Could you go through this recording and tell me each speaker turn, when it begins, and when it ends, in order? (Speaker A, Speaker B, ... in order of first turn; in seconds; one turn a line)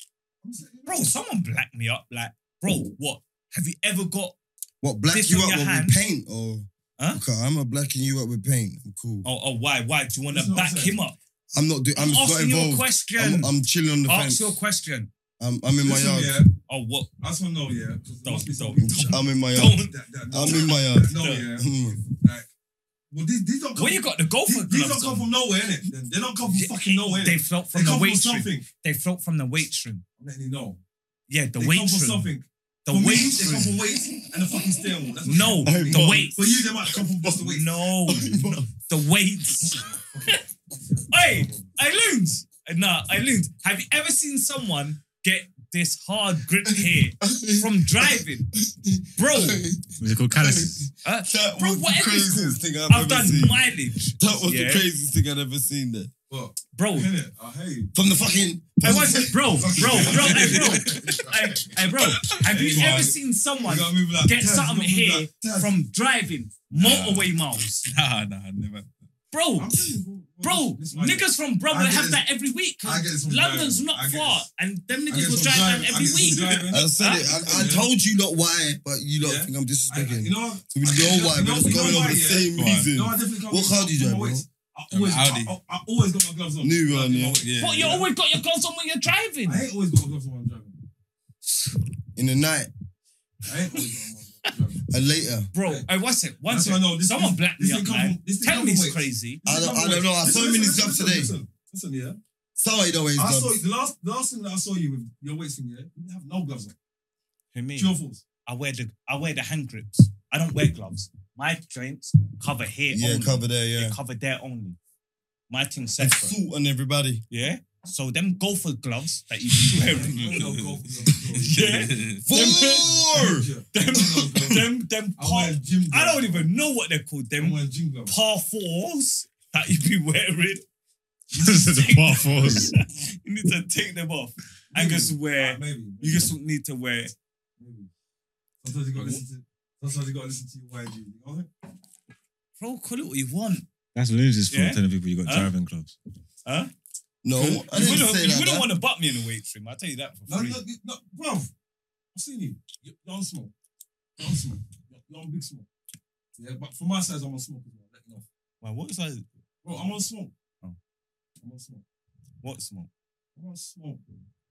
Speaker A: 0.4-1.2
Speaker B: 0.9-4.3
Speaker C: 4.8-9.3
Speaker B: 5.1-6.0
Speaker B: 9.2-11.2
Speaker A: 10.3-11.0
Speaker C: 11.5-14.6
Speaker B: 11.9-13.5
Speaker B: 14.1-15.1
Speaker C: 15.4-16.4
Speaker A: 15.8-16.5
Speaker B: 16.7-17.1
Speaker A: 17.2-22.5
Speaker B: 18.2-21.5
Speaker C: 18.8-22.1
Speaker A: 23.1-28.7
Speaker B: 23.8-25.3
Speaker B: 26.4-30.0
Speaker A: 30.2-30.8
Speaker B: 31.3-32.3
Speaker A: 31.6-37.7
Speaker B: 32.9-33.8
Speaker B: 35.2-36.7
Speaker C: 35.6-38.7
Speaker B: 37.4-40.4
Speaker A: 39.9-41.7
Speaker B: 41.1-48.5
Speaker C: 46.7-53.7
Speaker B: 49.2-49.6
Speaker D: 50.0-50.9
Speaker B: 51.0-54.9
Speaker C: 54.2-56.1
Speaker A: 56.3-57.9
Speaker B: 56.7-57.1
Speaker C: 57.9-60.7
Speaker B: 58.8-67.9
Speaker A: 59.9-61.0
Speaker E: 60.1-61.3
Speaker E: 62.0-62.5
Speaker A: 62.4-65.7
Speaker E: 66.7-67.3
Speaker E: 67.9-68.9
Speaker B: 69.3-69.7
Speaker A: 69.6-72.2
Speaker B: 70.4-77.7
Speaker A: 72.8-74.5
Speaker A: 75.1-77.9
Speaker E: 76.0-76.6
Speaker C: 76.7-84.5
Speaker A: 79.2-88.0
Speaker E: 82.5-82.9
Speaker E: 84.9-85.5
Speaker C: 86.6-87.4
Speaker E: 87.4-88.0
Speaker B: 87.6-89.7
Speaker A: 89.5-90.8
Speaker C: 92.2-92.7
Speaker A: 93.5-94.8
Speaker C: 94.9-95.5
Speaker B: 95.5-99.4
Speaker A: 95.6-95.9
Speaker A: 96.5-102.2
Speaker C: 99.4-101.3
Speaker C: 102.6-103.6
Speaker A: 103.2-106.8
Speaker B: 107.5-107.9
Speaker A: 107.8-108.2
Speaker B: 108.5-114.8
Speaker C: 112.9-114.0
Speaker B: 115.5-116.3
Speaker C: 116.0-117.2
Speaker B: 117.3-120.2
Speaker A: 119.7-121.5
Speaker E: 120.2-122.3
Speaker B: 121.5-122.9
Speaker C: 122.2-123.5
Speaker A: 123.0-126.5
Speaker B: 123.7-130.6
Speaker A: 127.4-128.1
Speaker B: 131.3-137.1
Speaker D: 131.3-132.7
Speaker A: 134.7-136.3
Speaker A: 137.6-137.9
Speaker A: 138.6-141.5
Speaker B: 139.0-139.2
Speaker B: 142.6-143.7
Speaker D: 143.9-146.0
Speaker B: 144.5-145.5
Speaker B: 146.4-146.7
Speaker C: 147.2-148.7
Speaker E: 147.4-147.7
Speaker B: 147.7-150.6
Speaker A: 150.3-151.5
Speaker A: 152.1-153.5
Speaker A: 154.2-155.7
Speaker A: 156.4-158.3
Speaker B: 158.6-159.3
Speaker A: 159.6-160.3
Speaker A: 161.4-161.8
Speaker B: 162.4-162.9
Speaker A: 163.3-164.3